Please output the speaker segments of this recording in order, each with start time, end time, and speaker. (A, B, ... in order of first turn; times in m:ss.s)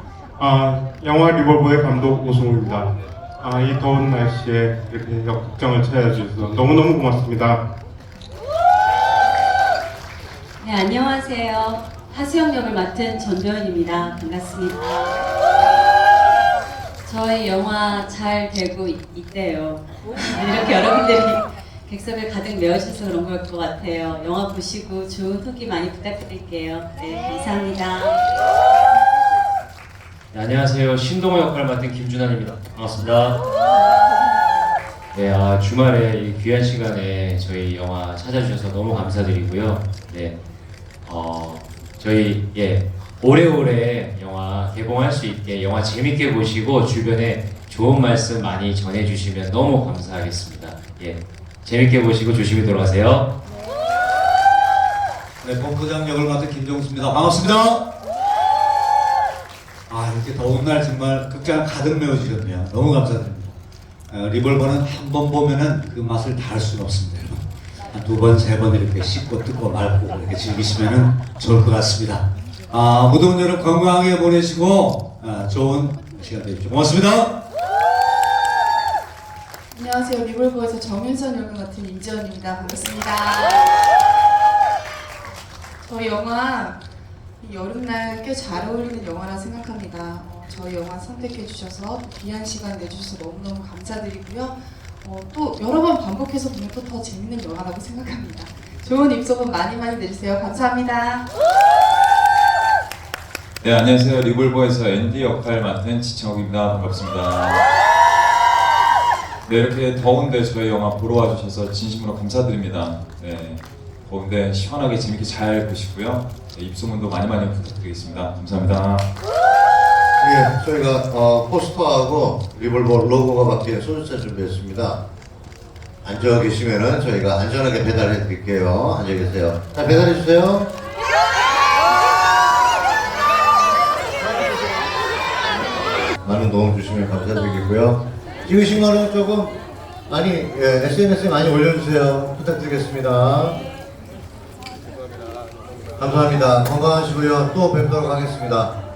0:00.4-0:07.6 A
0:10.6-0:15.2 B
0:17.0-0:28.2 B
0:30.3-0:33.4 C
0:35.1-0:40.4 C
0:41.0-0:53.3 C
0:55.4-0:57.8 D
0:59.9-1:03.5 D
1:04.1-1:17.4 D
1:19.7-1:23.7 E
1:25.8-1:26.8 E
1:27.4-1:41.3 E
1:43.6-1:47.6 F
1:49.4-1:59.0 F
2:00.2-2:05.0 G
2:06.0-2:10.7 G
2:16.2-2:19.6 G
2:20.1-2:23.6 G
2:26.0-2:28.7 G